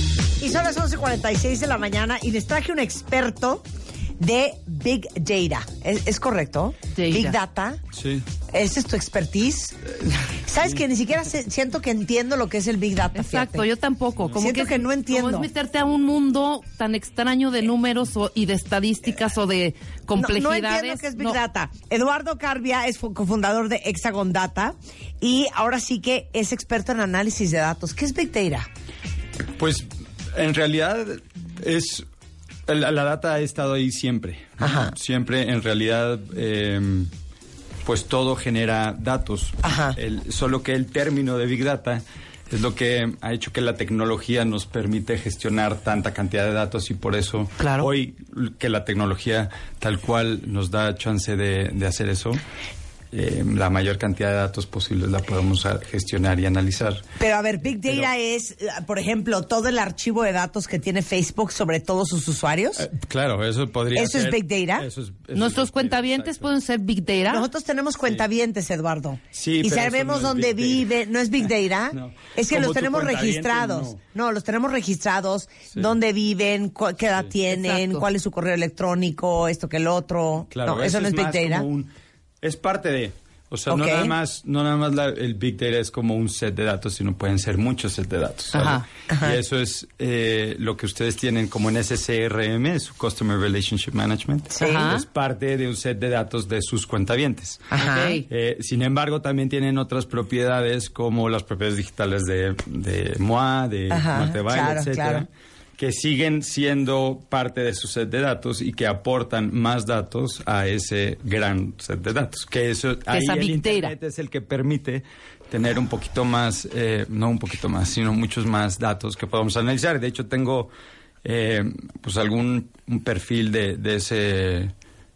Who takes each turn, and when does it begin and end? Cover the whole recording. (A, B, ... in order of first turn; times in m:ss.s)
0:00.4-0:03.6 A
0:04.2-0:07.8 A
0:06.9-0:07.4 B
0:07.9-0:08.2 C
0:08.5-0:13.6 A
0:13.1-0:21.4 B
0:14.3-0:15.5 A
0:20.1-0:28.7 A
0:29.6-0:32.0 C
0:32.7-0:37.1 C
0:34.6-0:34.9 A
0:37.8-0:52.4 C
0:39.6-0:40.0 A
0:47.6-0:47.9 B
0:53.1-0:57.0 C
0:57.2-1:02.9 A
0:57.8-0:58.1 C
1:02.8-1:06.5 C
1:03.9-1:04.9 A
1:05.3-1:07.4 B
1:07.3-1:21.6 A
1:09.3-1:10.9 C
1:11.9-1:14.0 C
1:17.5-1:18.0 B
1:20.5-1:21.9 C
1:22.4-1:37.7 C
1:23.7-1:24.1 A
1:28.5-1:28.8 B
1:29.1-1:29.4 A
1:34.5-1:34.9 A
1:34.6-1:35.0 B
1:37.7-1:38.2 A
1:37.8-1:38.2 B
1:38.3-2:00.7 C
1:43.9-1:45.2 A
1:53.1-1:53.9 B
2:01.2-2:04.7 C